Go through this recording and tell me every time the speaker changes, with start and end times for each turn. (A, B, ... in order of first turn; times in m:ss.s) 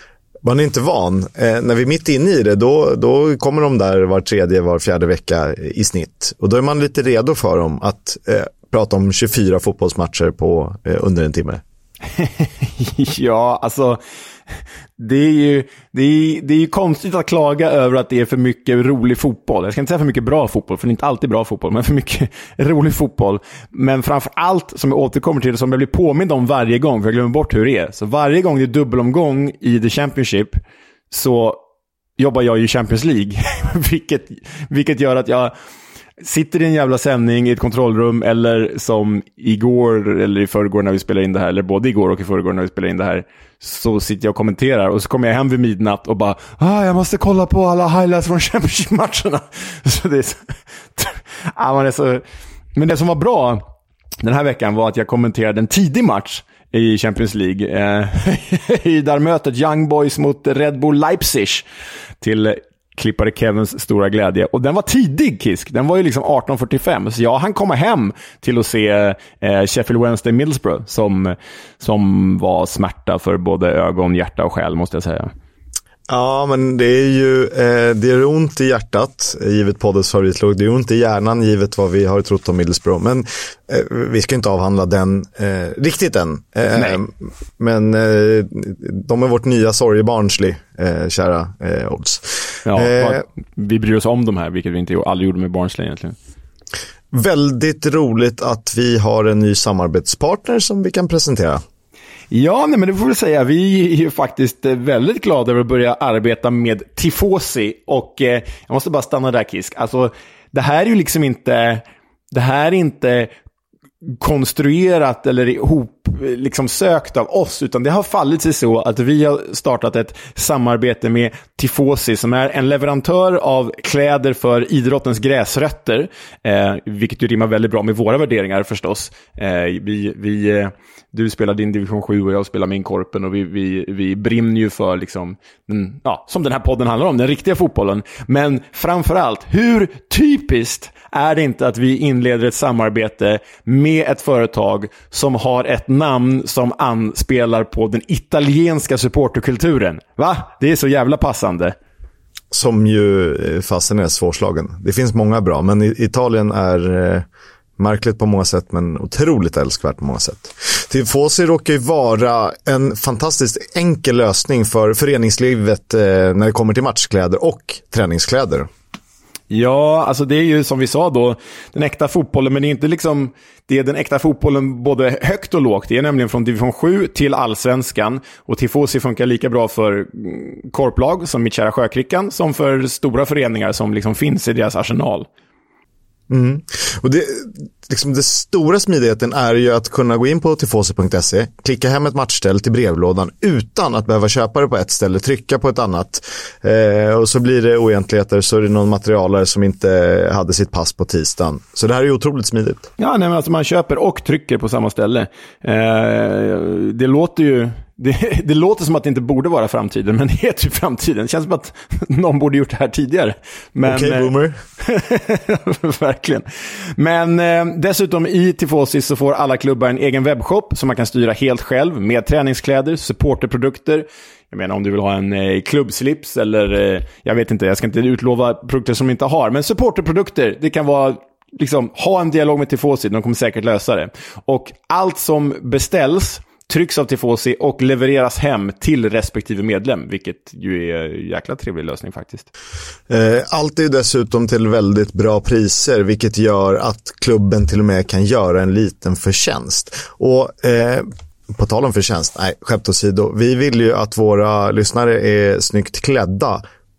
0:00.4-0:11.6 A
0:12.2-0:14.0 B
0:15.0-0:30.6 B
0:31.1-0:31.6 B
0:32.2-0:35.5 B
0:36.2-0:52.2 B
0:52.8-0:53.6 B
0:54.2-1:01.7 B
1:02.2-1:15.3 B
1:16.1-1:33.2 A
1:32.7-1:36.2 B
1:37.1-1:41.6 A
1:42.3-1:53.3 B
1:54.0-2:31.8 B
2:32.5-2:37.2 A
2:37.8-2:48.7 A
2:49.5-3:05.3 B
3:06.3-3:22.9 A
3:23.0-4:02.5 B
3:33.9-3:34.6 A
4:03.1-4:16.6 A